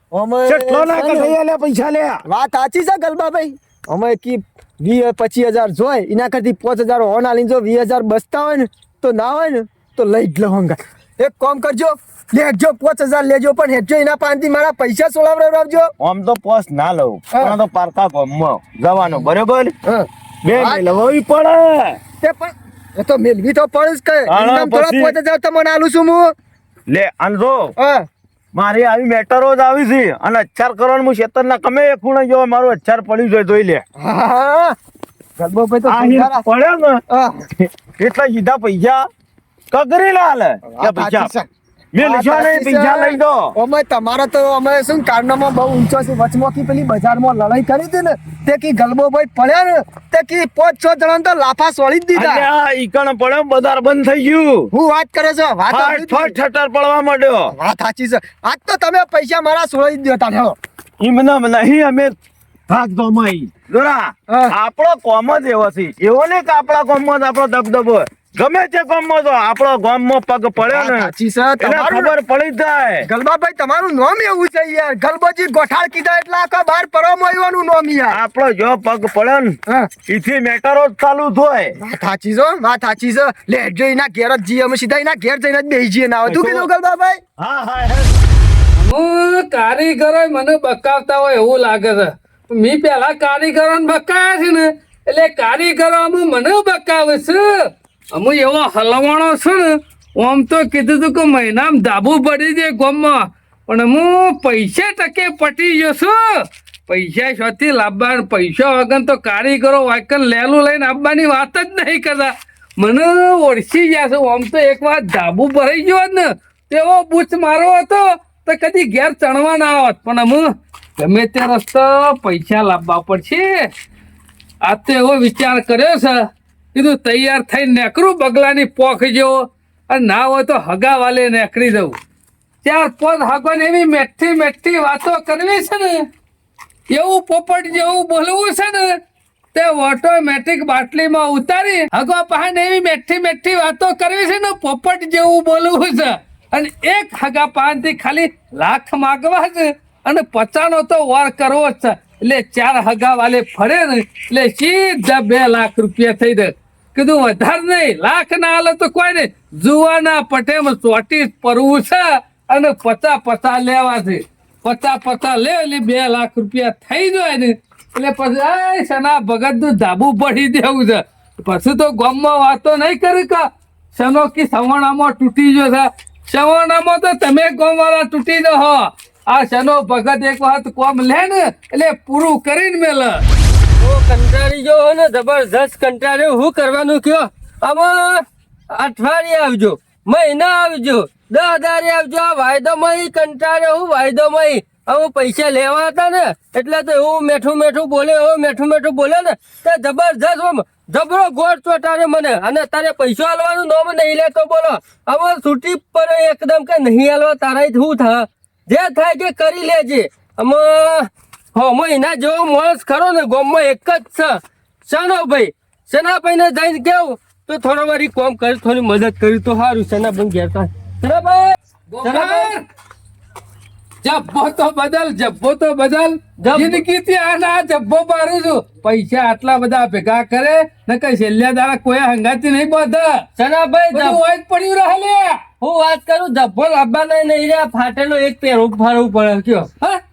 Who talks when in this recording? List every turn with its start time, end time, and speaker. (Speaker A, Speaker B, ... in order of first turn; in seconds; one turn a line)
Speaker A: 0.1-1.3
Speaker B: 0.5-2.2
Speaker A: 2.2-15.9
Speaker B: 16.0-19.7
Speaker A: 19.8-20.8
Speaker B: 20.4-22.0
Speaker A: 22.2-26.3
Speaker B: 24.3-25.1
Speaker B: 26.9-27.7
Speaker A: 27.8-28.1
Speaker B: 28.5-33.8
Speaker A: 34.0-34.8
Speaker A: 35.4-36.4
Speaker B: 35.9-37.0
Speaker A: 37.1-37.4
Speaker B: 37.6-39.0
Speaker B: 39.7-41.3
Speaker A: 40.6-41.5
Speaker B: 41.9-43.5
Speaker A: 42.0-52.5
Speaker B: 52.1-54.7
Speaker A: 54.7-56.4
Speaker B: 55.7-57.5
Speaker A: 57.5-60.5
Speaker B: 61.0-62.1
Speaker B: 62.7-73.0
Speaker A: 70.6-72.1
Speaker A: 73.0-78.2
Speaker B: 78.1-79.5
Speaker B: 80.1-81.8
Speaker A: 81.8-87.2
Speaker B: 86.2-86.7
Speaker B: 87.4-88.1
Speaker C: 88.8-123.7
Speaker C: 124.6-131.9
Speaker C: 132.6-136.0
Speaker C: 136.9-139.0
Speaker C: 139.5-183.2
Speaker D: 183.8-222.5
Speaker C: 221.9-222.6
Speaker C: 224.0-233.2
Speaker D: 226.4-226.8
Speaker D: 233.4-234.2
Speaker C: 233.9-235.4
Speaker D: 235.6-239.7